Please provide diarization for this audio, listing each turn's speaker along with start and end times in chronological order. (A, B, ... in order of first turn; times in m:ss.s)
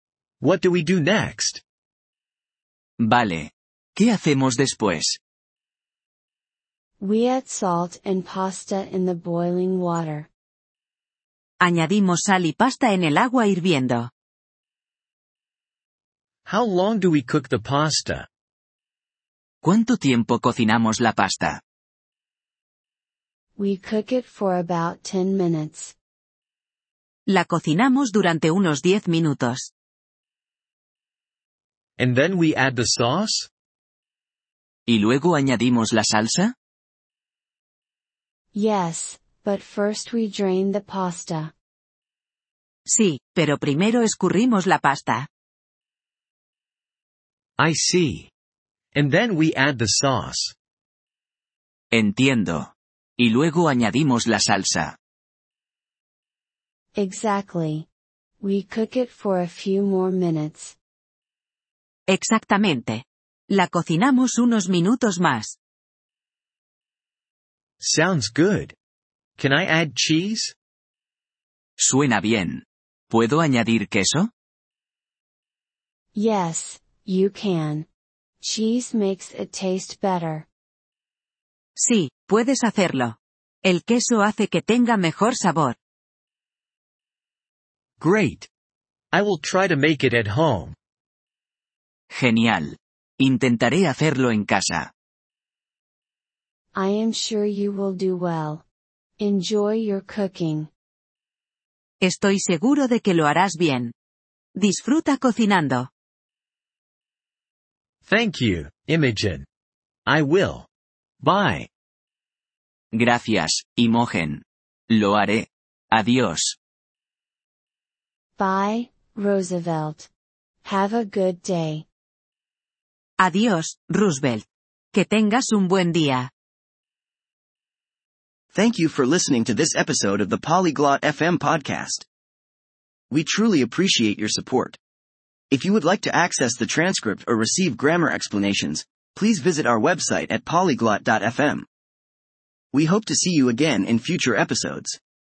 0:00.4-0:01.6 A
0:03.0-0:05.2 B
0:07.0-0:10.3 C
0:11.6-0:14.1 D
0:16.5-0:18.3 A
0:19.6-0:21.6 B
0:23.6-0:26.0 C
0:27.3-0:29.7 D
0:32.0-0:33.5 A
0:34.9-0:36.5 B
0:38.5-0:41.5 C
0:42.9-0:45.3 D
0:47.6-0:48.3 A
0:48.9-0:50.5 A
0:51.9-0:55.0 B
0:57.0-0:57.9 C
0:58.4-1:00.8 C
1:02.1-1:05.6 D
1:07.8-1:08.8 A
1:09.4-1:10.5 A
1:11.8-1:14.3 B
1:16.1-1:17.9 C
1:18.4-1:20.5 C
1:21.8-1:25.8 D
1:28.0-1:28.5 A
1:29.1-1:30.8 A
1:32.1-1:34.9 B
1:36.7-1:38.6 C
1:39.2-1:40.7 C
1:42.0-1:43.9 D
1:44.6-1:45.9 D
1:48.1-1:49.5 A
1:50.1-1:50.7 A
1:51.2-1:51.7 A
1:52.9-1:56.6 B
1:58.4-2:00.1 C
2:00.6-2:01.9 C
2:03.2-2:06.3 D
2:08.5-2:12.0 E
2:13.1-2:14.8 E
2:15.5-2:21.7 E
2:22.7-2:25.0 E